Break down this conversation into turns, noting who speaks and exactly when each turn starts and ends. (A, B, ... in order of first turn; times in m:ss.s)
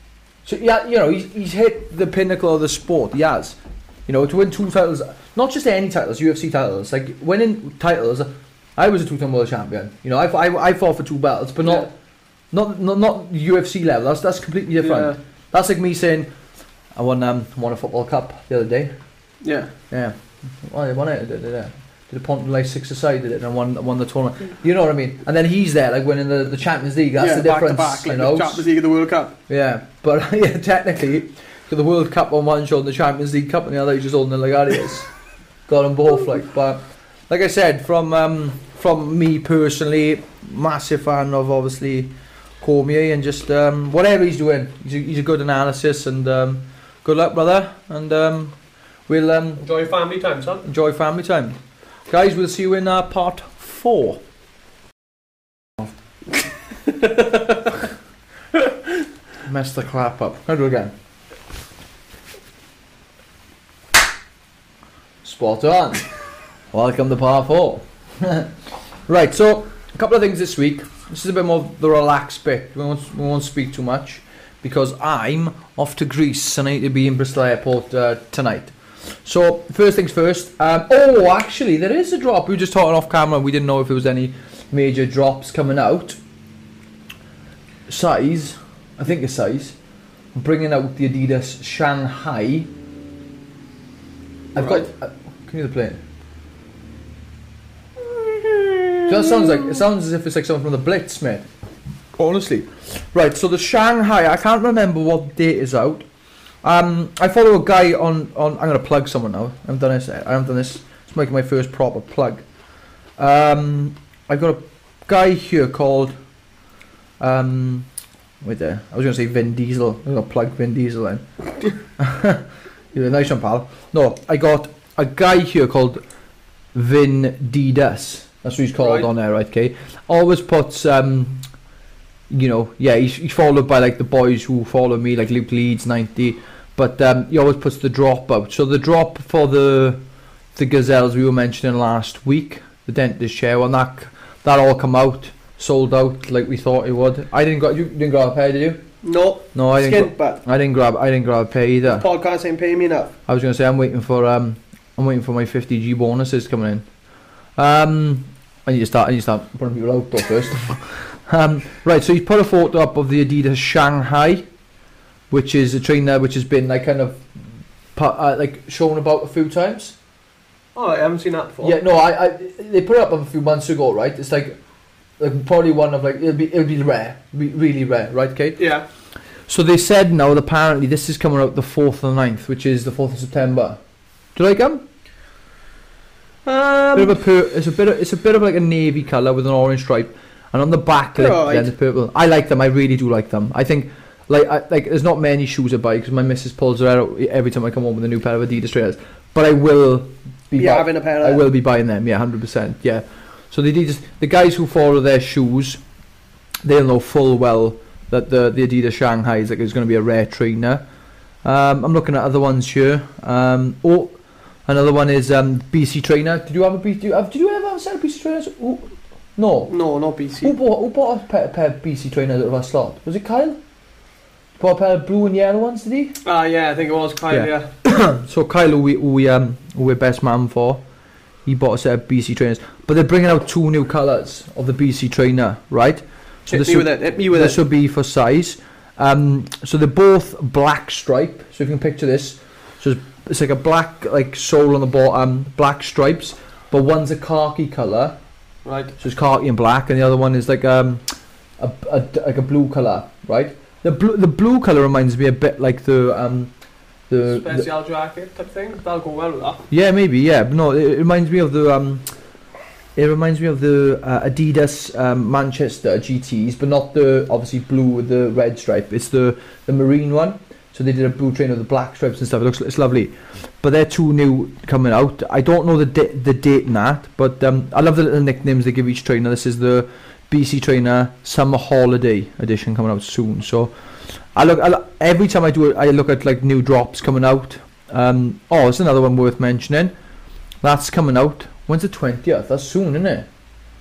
0:00.4-0:11.9 A
0:11.6-0:11.9 B
0:12.5-0:16.3 A
0:14.8-0:15.2 B
0:16.9-0:18.9 A
0:19.4-0:19.7 B
0:19.9-0:28.6 A
0:27.2-0:29.3 B
0:29.5-0:35.1 A
0:35.7-0:49.6 A
0:49.6-0:50.6 B
0:50.6-0:51.6 A
0:52.1-0:54.2 A
0:56.8-0:57.9 B
0:59.4-1:00.9 A
1:05.2-1:06.1 A
1:06.7-1:08.6 A
1:09.1-1:26.2 A
1:27.9-1:29.8 A
1:30.3-1:32.7 A
1:34.5-1:36.0 A
1:34.5-1:34.9 B
1:38.2-1:39.4 B
1:39.0-1:41.5 A
1:42.2-1:46.0 A
1:46.6-1:52.4 A
1:53.2-1:56.1 A
1:57.2-1:57.9 A
1:58.4-2:01.2 A
2:02.0-2:06.0 A
2:06.7-2:11.4 A
2:08.8-2:09.1 B
2:12.3-2:20.0 A
2:20.5-2:28.8 A
2:29.0-2:30.4 B
2:29.5-2:32.0 A
2:31.8-2:33.1 B
2:33.3-2:36.8 A
2:37.6-2:44.4 A
2:45.3-2:47.2 A
2:47.9-2:50.0 A
2:50.7-2:51.8 B
2:51.6-2:54.6 A
2:55.2-2:58.6 A
2:58.6-2:58.8 B
2:59.5-3:03.8 A
3:04.3-3:04.8 A
3:06.4-3:07.2 B
3:06.9-3:25.8 A
3:11.2-3:11.7 B
3:20.6-3:21.4 B
3:26.6-3:30.8 A
3:31.4-3:34.1 A
3:34.6-3:39.7 A
3:39.7-3:40.6 B
3:40.4-3:43.6 A
3:44.6-3:46.2 A
3:46.2-3:47.7 B
3:47.3-3:50.8 A
3:51.4-4:08.1 A
3:56.5-3:57.6 B
4:08.6-4:08.9 B
4:09.0-4:11.0 A
4:11.6-4:16.5 A
4:17.1-4:17.7 A
4:17.2-4:19.6 B
4:19.7-4:22.0 A
4:23.0-4:43.7 A
4:44.3-4:49.9 A
4:50.6-4:53.3 A